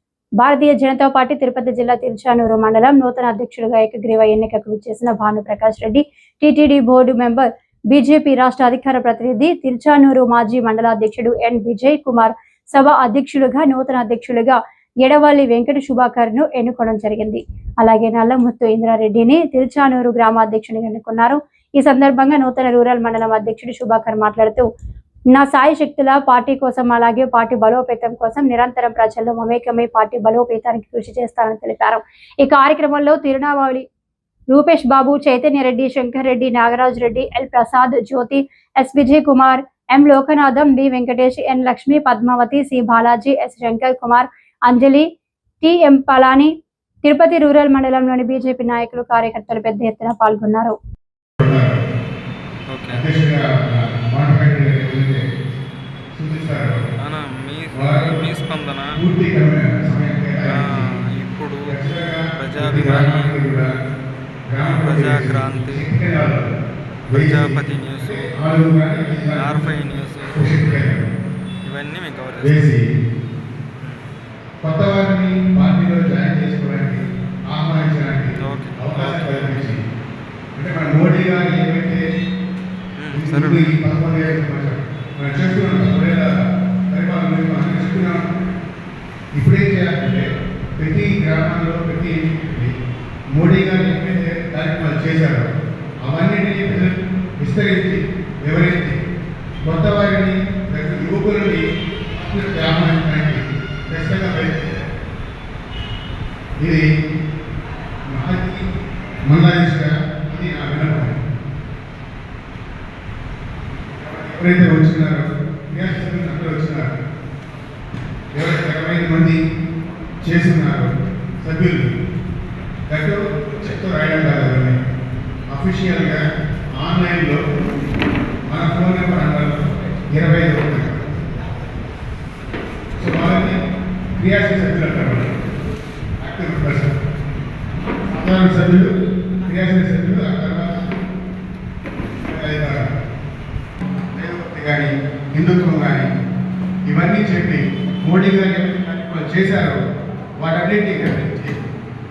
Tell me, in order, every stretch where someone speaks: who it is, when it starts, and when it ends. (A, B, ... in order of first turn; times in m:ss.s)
0:00.4-0:24.7 A
0:25.3-0:33.9 A
0:34.5-0:45.1 A
0:45.6-0:46.5 A
0:47.0-0:50.8 A
0:51.4-0:51.8 B
0:52.7-0:53.1 C
0:52.9-0:55.2 B
0:56.1-0:56.9 B
0:57.0-0:59.0 C
0:57.7-0:58.2 B
0:58.9-1:00.9 B
1:00.5-1:01.8 C
1:01.7-1:03.7 B
1:02.4-1:03.3 C
1:04.5-1:06.5 B
1:04.6-1:05.8 C
1:07.1-1:08.3 C
1:07.1-1:09.7 B
1:09.3-1:10.6 C
1:10.3-1:11.1 B
1:11.7-1:12.6 C
1:12.4-1:12.8 B
1:14.6-1:19.8 B
1:18.4-1:19.6 C
1:20.6-1:22.0 B
1:23.0-1:23.8 C
1:23.1-1:26.4 B
1:26.9-1:28.2 B
1:29.4-1:32.7 B
1:33.3-1:35.5 B
1:36.0-1:39.0 B
1:39.7-1:41.6 B
1:42.1-1:44.8 B
1:46.6-1:46.9 B
1:48.0-1:48.6 B
1:49.2-1:51.2 B
1:54.0-1:56.9 B
1:58.3-1:59.4 B
2:00.2-2:00.9 B
2:01.4-2:01.9 B
2:02.9-2:04.8 B
2:05.5-2:06.2 B
2:06.8-2:07.4 B
2:08.5-2:11.0 B
2:13.0-2:13.6 B
2:14.2-2:15.3 B
2:16.2-2:16.9 B
2:18.1-2:18.9 B
2:19.4-2:20.9 B
2:22.2-2:22.9 B
2:24.1-2:26.1 B
2:26.9-2:29.8 B
2:30.4-2:31.6 B